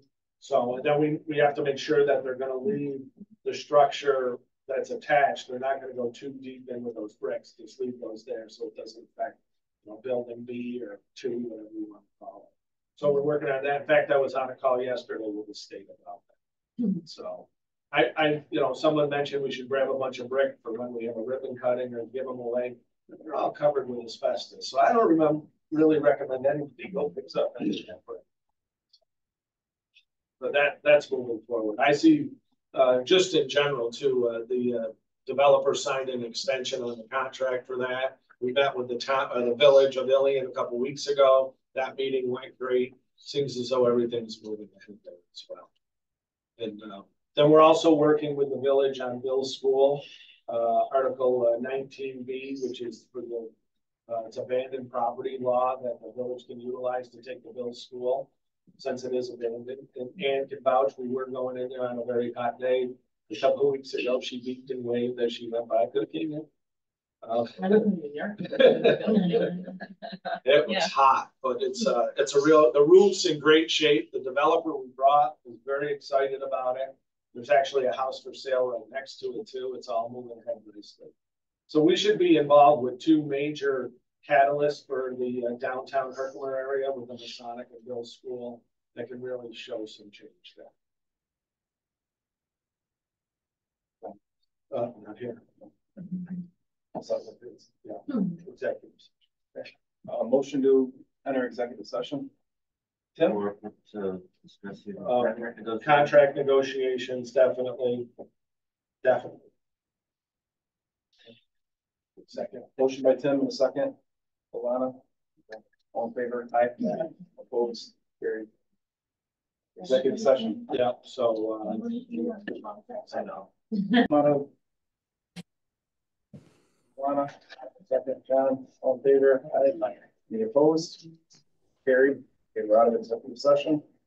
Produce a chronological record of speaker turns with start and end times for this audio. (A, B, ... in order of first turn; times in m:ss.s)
0:00.4-0:16.3 A
0:16.9-0:28.2 A
0:30.4-0:45.7 A
0:46.6-0:53.5 A
0:54.1-1:06.5 A
1:07.2-1:07.9 A
1:07.6-1:09.7 B
1:08.4-1:09.5 A
1:10.4-1:21.1 A
1:21.7-1:30.7 A
1:34.7-1:35.4 A
1:37.0-1:37.6 C
1:37.8-1:39.1 A
1:40.0-1:42.3 C
1:43.6-1:45.8 D
1:45.0-1:48.1 A
1:49.0-1:49.5 A
1:52.2-1:52.7 A
1:52.8-1:53.9 C
1:54.5-1:55.0 C
1:55.9-1:58.5 C
1:59.8-2:00.6 C
2:00.7-2:02.3 A
2:03.0-2:03.5 A
2:04.0-2:04.5 C
2:07.0-2:11.1 C
2:11.8-2:13.8 C